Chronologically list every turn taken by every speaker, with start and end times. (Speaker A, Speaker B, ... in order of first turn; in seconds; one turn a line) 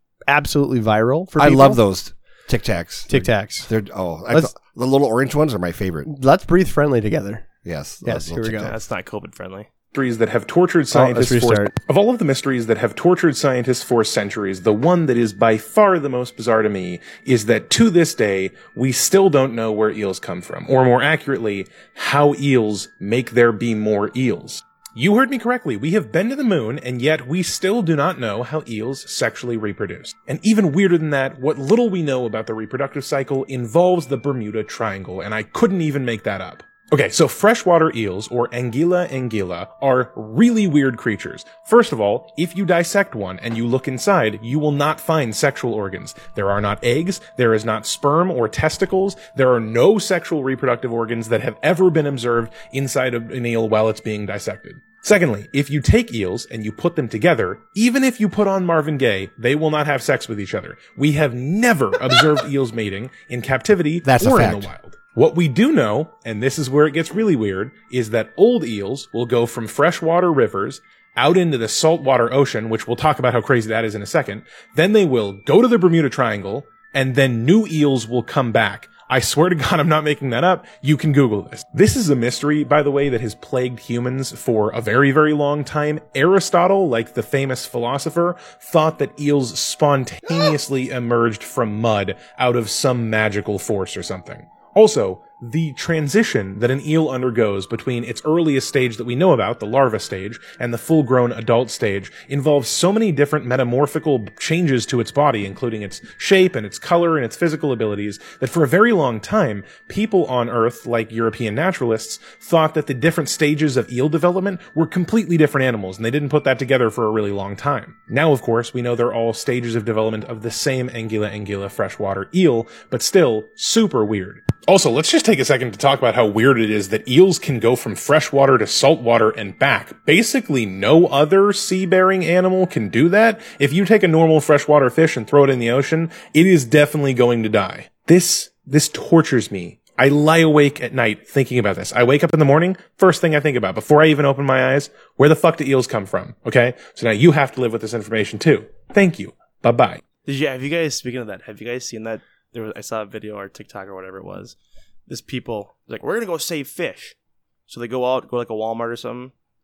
Speaker A: 0.3-1.8
Speaker B: 1.4-6.1
Speaker A: 3.1-3.7
Speaker A: 6.1-7.5
Speaker B: 7.6-8.7
Speaker A: 8.0-8.7
Speaker C: 8.7-9.7
Speaker D: 9.9-150.0
Speaker A: 10.9-11.7
Speaker B: 64.0-64.7
Speaker C: 150.2-154.5
Speaker C: 155.1-157.1
Speaker C: 157.7-159.3